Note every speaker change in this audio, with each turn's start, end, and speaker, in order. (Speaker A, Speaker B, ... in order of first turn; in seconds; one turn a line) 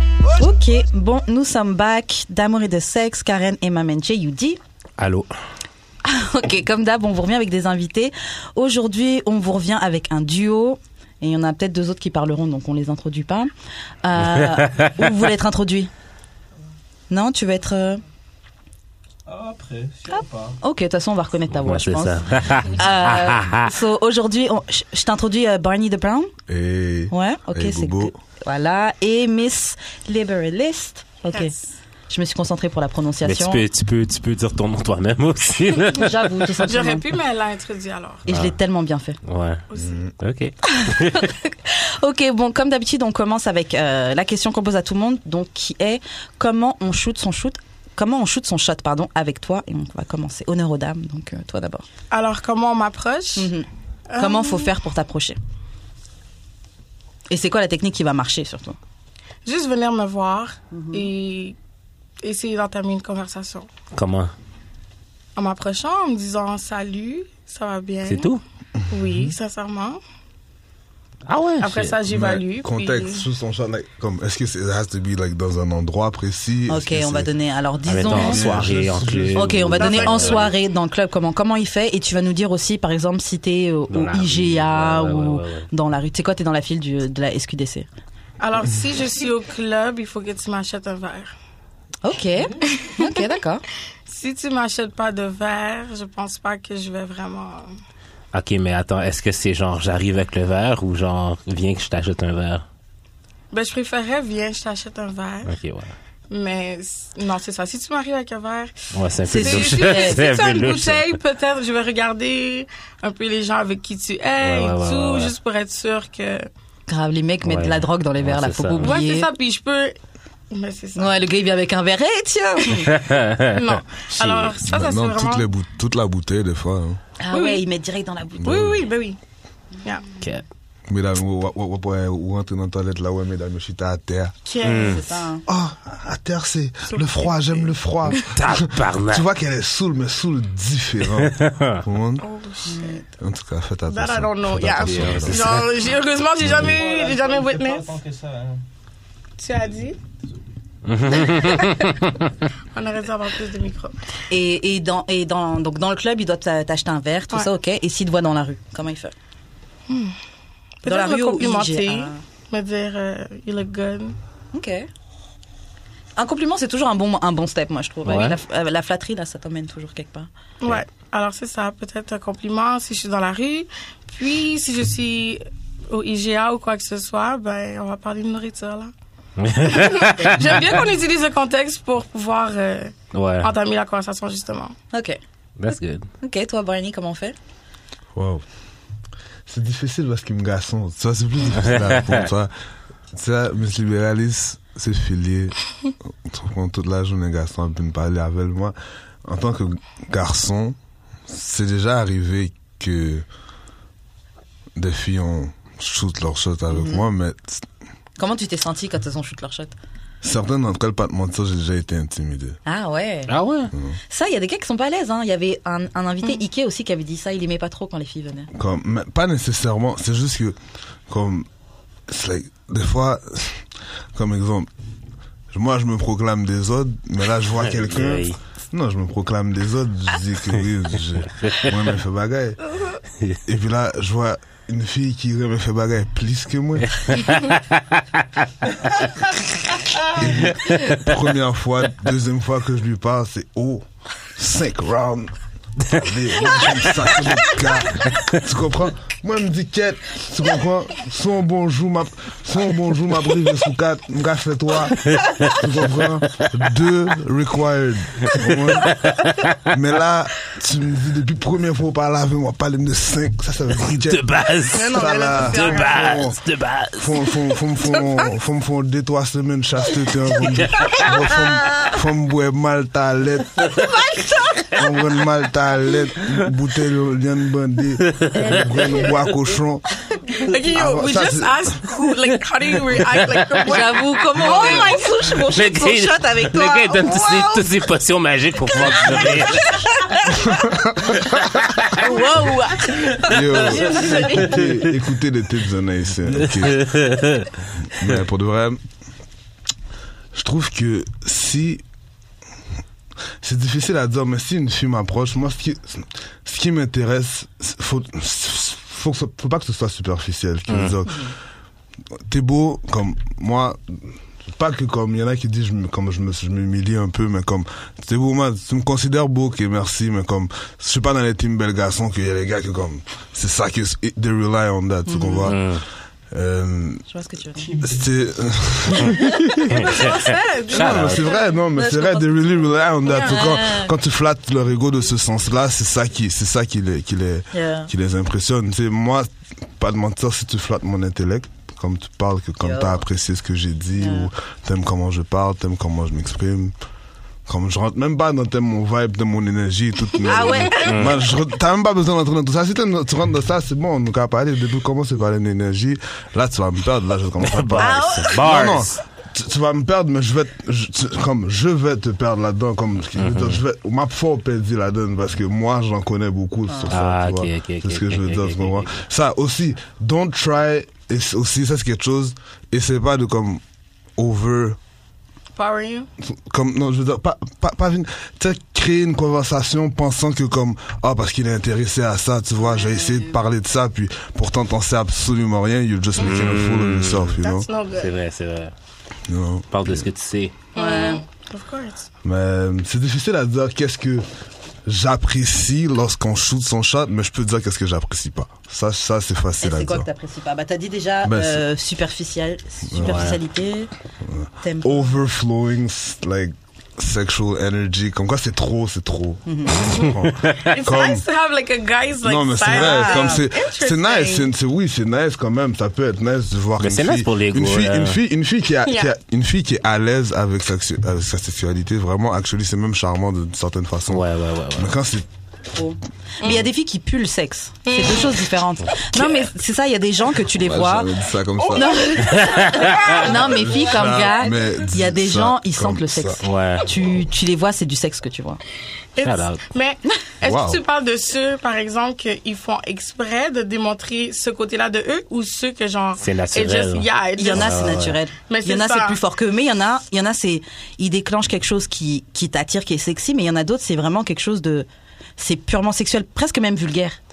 Speaker A: 0.4-4.6
Speaker B: 5.0-5.3
Speaker A: 6.0-13.5
Speaker A: 14.0-15.9
Speaker B: 14.3-15.1
Speaker A: 17.1-18.0
Speaker C: 19.3-20.6
Speaker A: 20.1-26.3
Speaker B: 21.6-23.7
Speaker D: 26.5-28.1
Speaker A: 27.1-31.5
Speaker E: 31.3-31.6
Speaker A: 32.1-33.6
Speaker B: 33.2-36.3
Speaker A: 36.0-37.0
Speaker E: 36.6-38.2
Speaker A: 38.3-39.2
Speaker B: 38.3-38.5
Speaker B: 39.2-39.6
Speaker E: 39.7-40.0
Speaker D: 39.8-40.1
Speaker B: 40.2-41.3
Speaker A: 40.6-51.8
Speaker E: 52.1-53.5
Speaker A: 53.4-53.7
Speaker E: 54.1-54.7
Speaker A: 54.2-55.4
Speaker A: 57.3-58.8
Speaker E: 59.5-61.6
Speaker A: 60.7-61.1
Speaker E: 62.2-63.7
Speaker B: 63.9-64.3
Speaker E: 65.4-68.3
Speaker B: 68.0-68.4
Speaker D: 68.8-69.3
Speaker E: 68.9-70.0
Speaker B: 71.3-72.0
Speaker E: 71.6-73.2
Speaker D: 72.1-77.3
Speaker A: 76.7-78.5
Speaker B: 77.9-80.5
Speaker D: 78.1-80.5
Speaker A: 79.3-87.9
Speaker E: 79.8-80.4
Speaker B: 83.9-85.7
Speaker E: 88.4-91.3
Speaker A: 92.0-93.6
Speaker E: 92.7-93.2
Speaker E: 94.1-97.7
Speaker B: 98.3-102.7
Speaker E: 103.5-105.5
Speaker B: 105.5-105.9
Speaker E: 106.3-108.8
Speaker B: 108.9-111.2
Speaker A: 109.3-110.2
Speaker E: 109.3-116.5
Speaker B: 114.4-115.3
Speaker A: 116.9-119.3
Speaker B: 117.5-119.0
Speaker E: 118.8-120.0
Speaker E: 120.5-121.2
Speaker A: 121.0-123.0
Speaker B: 123.0-124.6
Speaker E: 123.5-125.5
Speaker D: 124.6-127.0
Speaker A: 127.2-128.7
Speaker E: 127.3-127.6
Speaker D: 128.4-128.9
Speaker E: 128.4-129.2
Speaker D: 130.9-134.3
Speaker E: 134.5-135.2
Speaker B: 134.6-135.0
Speaker A: 134.7-135.4
Speaker D: 135.5-142.3
Speaker E: 136.9-137.3
Speaker B: 138.1-139.2
Speaker B: 141.2-141.8
Speaker E: 142.2-143.1
Speaker A: 142.7-143.0
Speaker D: 143.2-145.7
Speaker E: 143.9-147.9
Speaker B: 144.8-145.7
Speaker D: 146.4-146.8
Speaker C: 146.6-148.6
Speaker E: 149.4-150.0
Speaker B: 150.9-152.3
Speaker E: 151.1-152.0
Speaker E: 152.7-154.0
Speaker A: 154.3-159.1
Speaker E: 159.9-160.2
Speaker E: 160.8-164.2
Speaker A: 160.9-162.2
Speaker A: 164.5-164.9
Speaker A: 166.2-170.3
Speaker B: 168.1-168.4
Speaker E: 170.6-178.9
Speaker B: 179.4-180.9
Speaker E: 179.6-184.8
Speaker B: 183.1-183.5
Speaker A: 184.9-185.2
Speaker B: 185.6-186.1
Speaker A: 186.2-187.3
Speaker D: 188.2-188.4
Speaker D: 189.5-192.5
Speaker B: 191.7-192.2
Speaker D: 193.1-195.6
Speaker D: 196.1-200.8
Speaker D: 201.3-203.2
Speaker D: 204.8-207.7
Speaker A: 206.7-207.1
Speaker A: 208.2-209.7
Speaker D: 210.2-212.6
Speaker A: 212.7-213.3
Speaker B: 213.3-213.7
Speaker A: 214.1-218.5
Speaker D: 218.5-220.6
Speaker D: 221.1-221.5
Speaker D: 222.1-223.6
Speaker D: 224.2-224.7
Speaker D: 225.5-232.6
Speaker B: 227.8-228.4
Speaker B: 231.4-231.7
Speaker D: 233.5-237.0
Speaker B: 237.1-238.2
Speaker D: 240.1-243.8
Speaker B: 240.6-241.1
Speaker D: 244.4-245.3
Speaker D: 245.9-259.0
Speaker B: 258.9-259.5
Speaker D: 259.7-264.2
Speaker B: 263.8-267.4
Speaker E: 264.7-266.2
Speaker D: 264.9-266.4
Speaker D: 266.9-273.7
Speaker E: 270.9-271.9
Speaker E: 273.7-275.0
Speaker D: 274.8-279.9
Speaker B: 278.1-278.8
Speaker E: 280.3-285.1
Speaker D: 280.7-281.6
Speaker B: 283.1-289.8
Speaker A: 283.6-287.6
Speaker A: 288.8-290.4
Speaker D: 290.3-291.7
Speaker A: 292.0-294.4
Speaker D: 293.2-297.0
Speaker E: 293.6-294.4
Speaker B: 296.6-297.5
Speaker D: 297.9-298.8
Speaker D: 300.3-301.8
Speaker D: 303.4-311.3
Speaker B: 310.7-311.0
Speaker D: 312.3-325.7
Speaker A: 325.1-325.5
Speaker B: 325.4-325.8
Speaker D: 326.3-327.1
Speaker A: 327.1-327.7
Speaker C: 327.6-328.1
Speaker D: 327.8-330.1
Speaker E: 329.7-331.4
Speaker B: 329.9-331.2
Speaker D: 330.7-346.8
Speaker A: 331.7-332.3
Speaker A: 333.1-333.9
Speaker A: 337.5-337.9
Speaker A: 342.6-343.0
Speaker A: 344.0-344.3
Speaker D: 347.5-373.6
Speaker A: 350.2-350.9
Speaker B: 350.8-351.2
Speaker B: 357.4-359.0
Speaker A: 357.8-358.4
Speaker B: 363.2-363.6
Speaker B: 366.9-369.0
Speaker D: 374.2-374.8
Speaker E: 375.6-376.1
Speaker D: 376.2-387.7
Speaker A: 382.7-383.4
Speaker B: 386.2-387.4
Speaker E: 387.4-388.1
Speaker B: 387.9-388.7
Speaker D: 389.3-390.1
Speaker B: 389.7-390.5
Speaker A: 390.8-391.2
Speaker E: 390.8-392.1
Speaker D: 392.2-394.3
Speaker D: 394.9-400.1
Speaker A: 399.6-403.9
Speaker D: 401.2-401.6
Speaker D: 402.9-403.3
Speaker B: 403.0-403.4
Speaker D: 404.2-411.2
Speaker A: 404.6-405.1
Speaker A: 409.5-409.9
Speaker E: 410.7-414.5
Speaker D: 412.2-425.3
Speaker A: 412.7-413.4
Speaker B: 416.8-418.2
Speaker B: 424.1-424.9
Speaker A: 425.7-431.1
Speaker E: 427.9-428.5
Speaker E: 429.1-429.5
Speaker D: 430.5-432.0
Speaker E: 431.6-433.8
Speaker A: 431.8-438.6
Speaker B: 432.3-433.1
Speaker D: 433.3-436.4
Speaker B: 436.4-436.9
Speaker E: 439.1-449.2
Speaker B: 439.2-439.6
Speaker D: 440.4-440.8
Speaker B: 446.2-448.2
Speaker A: 447.4-454.9
Speaker A: 455.4-457.2